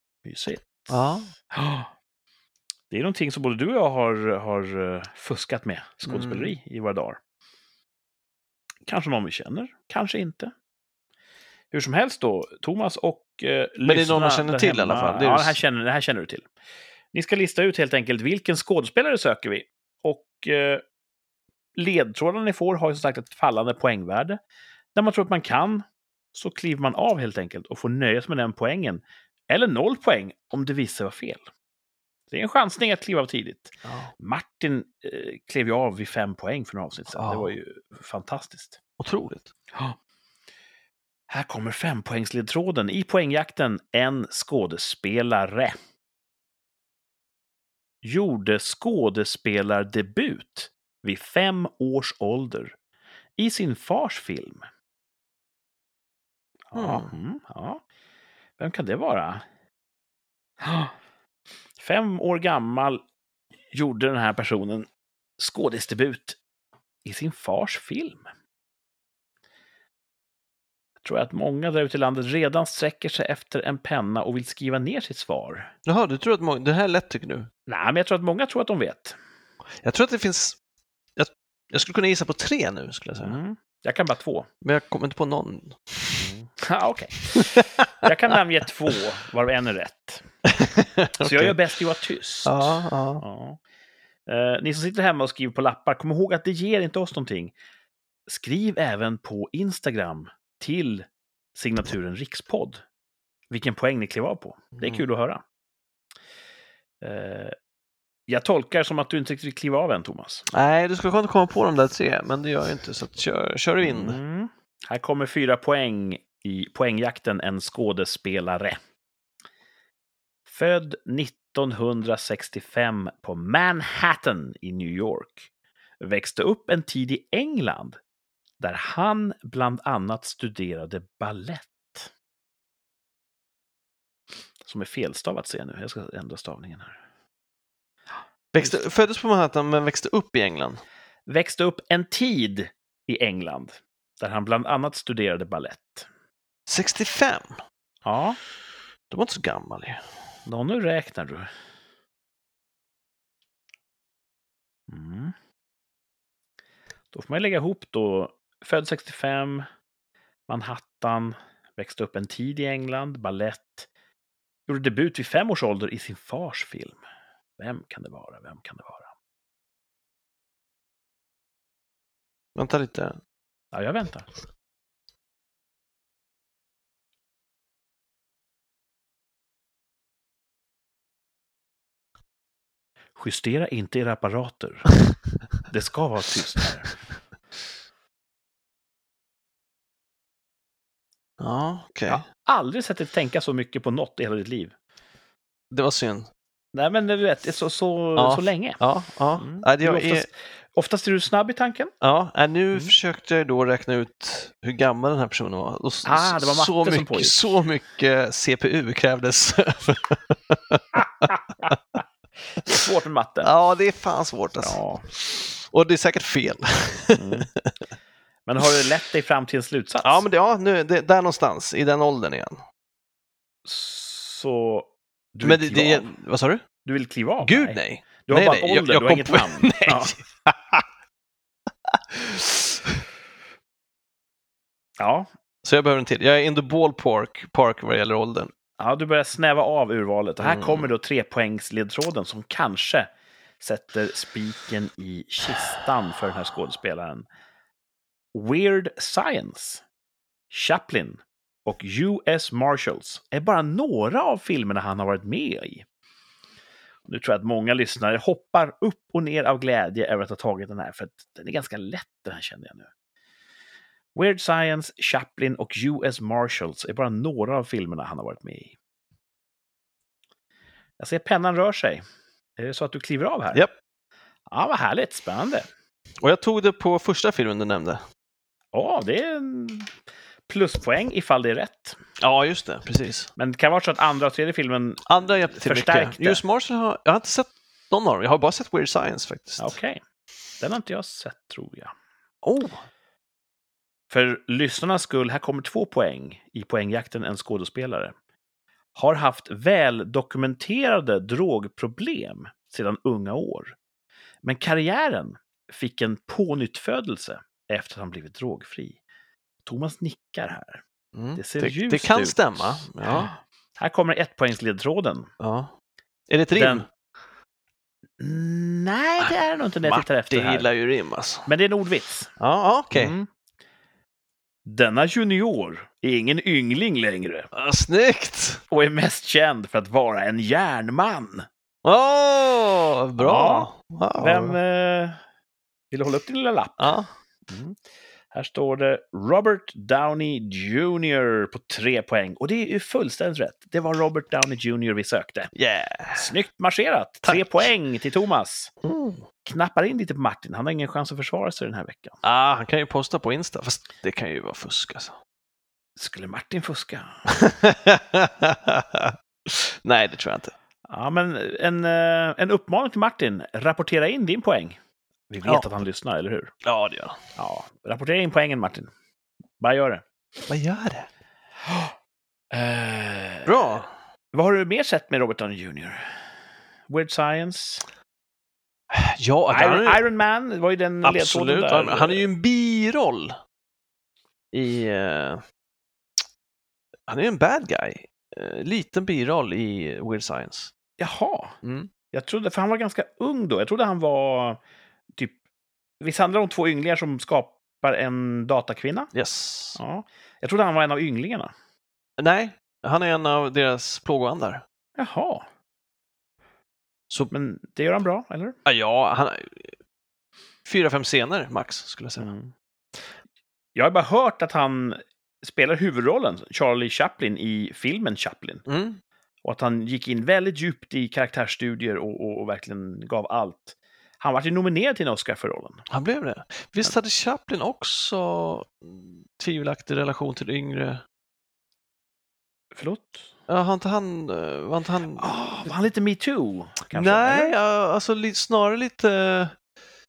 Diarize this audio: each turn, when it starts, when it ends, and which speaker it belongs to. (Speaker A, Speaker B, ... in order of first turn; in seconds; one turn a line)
Speaker A: 0.2-1.9
Speaker B: 0.9-1.3
Speaker A: 2.9-7.2
Speaker B: 6.0-6.5
Speaker A: 8.8-10.5
Speaker A: 11.7-16.5
Speaker B: 13.8-15.6
Speaker A: 17.1-20.8
Speaker A: 21.7-24.4
Speaker A: 24.9-31.4
Speaker A: 32.3-38.8
Speaker B: 33.8-34.1
Speaker B: 37.1-37.5
Speaker B: 39.0-39.5
Speaker A: 41.3-45.8
Speaker A: 48.0-52.8
Speaker A: 53.4-54.6
Speaker A: 56.7-57.8
Speaker B: 56.7-57.1
Speaker A: 58.6-59.4
Speaker A: 60.6-60.9
Speaker A: 61.8-63.0
Speaker A: 63.7-66.4
Speaker A: 67.0-68.2
Speaker A: 71.0-75.7
Speaker B: 75.8-77.5
Speaker A: 77.7-79.2
Speaker B: 79.8-80.6
Speaker B: 81.2-83.4
Speaker A: 83.2-84.5
Speaker B: 84.6-86.3
Speaker A: 86.2-90.2
Speaker B: 87.3-88.1
Speaker B: 90.4-91.6
Speaker A: 91.2-93.6
Speaker B: 92.4-93.2
Speaker A: 94.2-97.5
Speaker A: 98.3-102.8
Speaker A: 103.5-105.4
Speaker A: 107.0-107.5
Speaker A: 108.3-110.5
Speaker B: 110.5-114.2
Speaker A: 113.8-118.8
Speaker A: 120.5-125.5
Speaker A: 126.0-128.0
Speaker A: 128.6-132.1
Speaker A: 134.6-137.0
Speaker B: 138.5-140.8
Speaker A: 141.3-146.1
Speaker B: 146.7-147.6
Speaker A: 148.0-148.4
Speaker B: 149.1-150.0
Speaker A: 150.4-151.5
Speaker A: 154.9-155.3
Speaker A: 157.1-159.7
Speaker A: 160.5-163.9
Speaker A: 164.7-167.0
Speaker A: 167.6-169.1
Speaker B: 172.6-173.2
Speaker A: 173.7-174.3
Speaker A: 183.2-184.9
Speaker A: 185.7-186.9
Speaker B: 191.4-192.2
Speaker A: 192.1-194.7
Speaker B: 195.7-196.3
Speaker A: 196.7-198.8
Speaker B: 198.2-200.3
Speaker A: 199.3-201.9
Speaker B: 202.0-211.7
Speaker A: 206.0-207.4
Speaker A: 211.0-211.7
Speaker A: 212.6-213.5
Speaker B: 213.4-217.7
Speaker A: 214.6-215.0
Speaker A: 217.1-217.5
Speaker A: 218.4-220.2
Speaker B: 220.0-222.6
Speaker A: 223.6-226.1
Speaker B: 225.4-226.6
Speaker A: 226.8-230.1
Speaker B: 227.4-230.8
Speaker B: 231.9-233.0
Speaker A: 235.0-235.3
Speaker B: 235.6-238.5
Speaker A: 238.8-247.2
Speaker B: 240.4-240.9
Speaker A: 248.3-249.8
Speaker A: 250.5-255.8
Speaker A: 257.1-262.9
Speaker A: 264.1-268.8
Speaker A: 271.0-272.0
Speaker A: 272.6-273.6
Speaker A: 274.5-275.7
Speaker B: 276.2-278.0
Speaker A: 278.7-279.9
Speaker A: 280.5-282.0
Speaker B: 282.2-283.3
Speaker A: 283.4-286.4
Speaker B: 285.1-289.7
Speaker A: 289.6-290.0
Speaker A: 290.6-291.9
Speaker B: 292.4-292.8
Speaker A: 294.1-298.1
Speaker A: 298.9-303.8
Speaker A: 304.4-309.0
Speaker A: 309.6-310.8
Speaker B: 311.1-313.3
Speaker A: 311.4-315.3
Speaker B: 315.4-315.7
Speaker B: 316.3-316.9
Speaker A: 316.5-316.9
Speaker A: 318.2-320.7
Speaker B: 319.2-321.5
Speaker A: 321.4-322.3
Speaker B: 322.4-323.2
Speaker A: 322.9-323.3
Speaker A: 324.6-327.5
Speaker B: 327.5-328.6
Speaker A: 328.7-331.5
Speaker B: 331.8-334.6
Speaker A: 333.2-335.2
Speaker A: 335.9-336.9
Speaker B: 336.8-337.1
Speaker A: 337.5-337.8
Speaker A: 338.3-345.5
Speaker B: 345.5-346.3
Speaker A: 346.1-348.7
Speaker B: 347.2-347.6
Speaker B: 348.8-349.2
Speaker A: 349.4-352.2
Speaker B: 352.2-355.2
Speaker A: 356.0-357.2
Speaker B: 357.3-360.5
Speaker A: 360.9-364.8
Speaker A: 365.3-366.5
Speaker B: 365.4-365.7
Speaker B: 366.6-367.2
Speaker A: 367.4-368.9
Speaker A: 369.6-370.0
Speaker B: 370.5-371.1
Speaker A: 371.6-371.9
Speaker A: 372.5-376.1
Speaker B: 373.4-373.9
Speaker A: 376.9-377.8
Speaker B: 378.9-380.1
Speaker A: 379.5-382.3
Speaker B: 381.0-383.4
Speaker B: 384.5-385.4
Speaker B: 387.1-390.7
Speaker A: 391.0-391.6
Speaker B: 391.6-391.9
Speaker A: 392.1-394.6
Speaker A: 395.1-395.4
Speaker A: 396.0-399.1
Speaker B: 399.1-399.8
Speaker A: 399.8-401.5
Speaker B: 402.2-404.6
Speaker A: 405.0-405.4
Speaker A: 407.3-408.6
Speaker B: 408.6-409.8
Speaker B: 410.6-412.3
Speaker A: 412.2-412.5
Speaker A: 413.7-418.6
Speaker B: 418.7-419.0
Speaker A: 419.4-425.9
Speaker B: 425.9-431.0
Speaker A: 432.7-433.3
Speaker B: 433.5-435.3
Speaker A: 435.2-437.5
Speaker B: 436.9-439.6